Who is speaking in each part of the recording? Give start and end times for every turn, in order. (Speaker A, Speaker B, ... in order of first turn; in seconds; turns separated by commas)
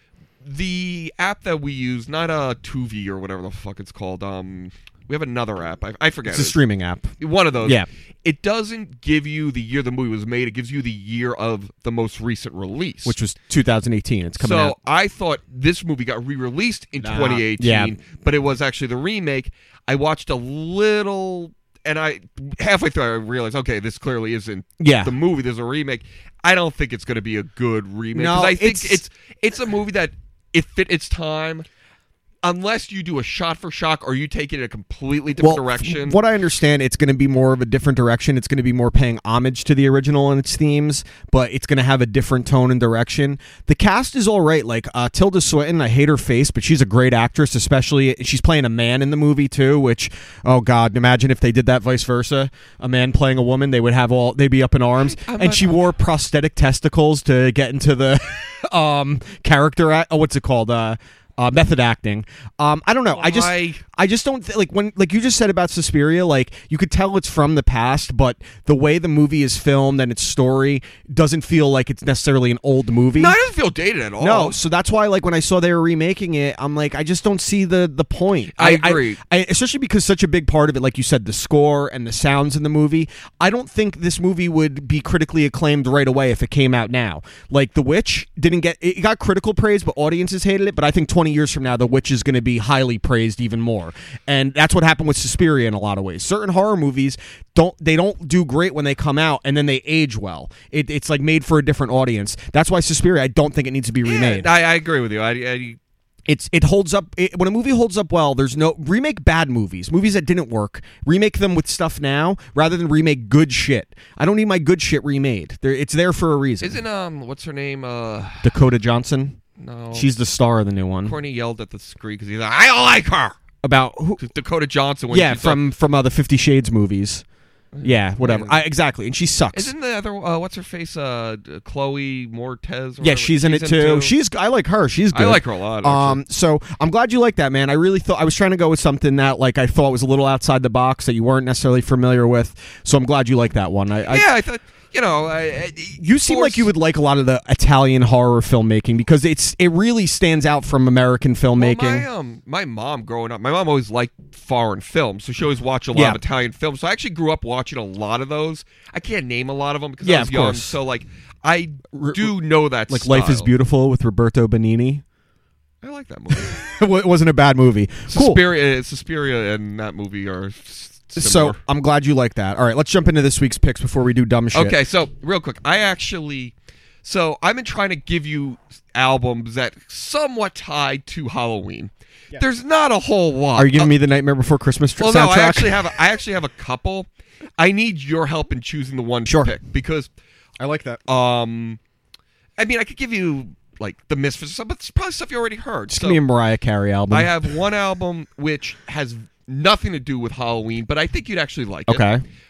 Speaker A: 0.4-6.6, Speaker B: 6.3-7.9, Speaker A: 7.2-13.2, Speaker B: 13.0-14.8, Speaker A: 14.4-31.6, Speaker B: 17.0-17.9, Speaker B: 24.8-25.1, Speaker B: 28.1-29.0, Speaker A: 32.4-36.2, Speaker B: 35.4-73.3, Speaker A: 55.0-55.8, Speaker A: 63.1-63.8, Speaker A: 73.1-74.6, Speaker B: 74.2-104.5, Speaker A: 78.5-79.2, Speaker A: 104.0-105.8, Speaker B: 106.3-116.8, Speaker A: 116.6-118.5, Speaker B: 118.4-119.4, Speaker A: 119.6-120.1, Speaker B: 119.9-121.1, Speaker A: 121.0-123.4, Speaker B: 123.6-124.2, Speaker A: 124.2-125.6, Speaker B: 125.1-127.2, Speaker A: 127.7-128.6, Speaker B: 127.8-129.7, Speaker A: 129.5-134.1, Speaker B: 133.0-144.2, Speaker A: 135.1-136.2, Speaker A: 144.1-146.7, Speaker B: 146.0-152.1, Speaker A: 151.6-163.5, Speaker B: 155.9-156.2, Speaker B: 160.0-160.8, Speaker B: 161.9-162.3, Speaker B: 162.9-165.0, Speaker A: 165.8-166.6, Speaker B: 166.3-168.4, Speaker A: 168.1-171.6, Speaker B: 171.2-174.8, Speaker A: 174.5-176.5, Speaker A: 177.0-183.9, Speaker B: 183.6-185.8, Speaker A: 185.0-187.1, Speaker A: 187.6-190.1, Speaker B: 189.2-189.5, Speaker B: 190.6-191.0, Speaker A: 191.1-191.8, Speaker A: 192.6-196.2, Speaker B: 195.9-197.4, Speaker A: 197.1-202.1, Speaker B: 201.9-202.2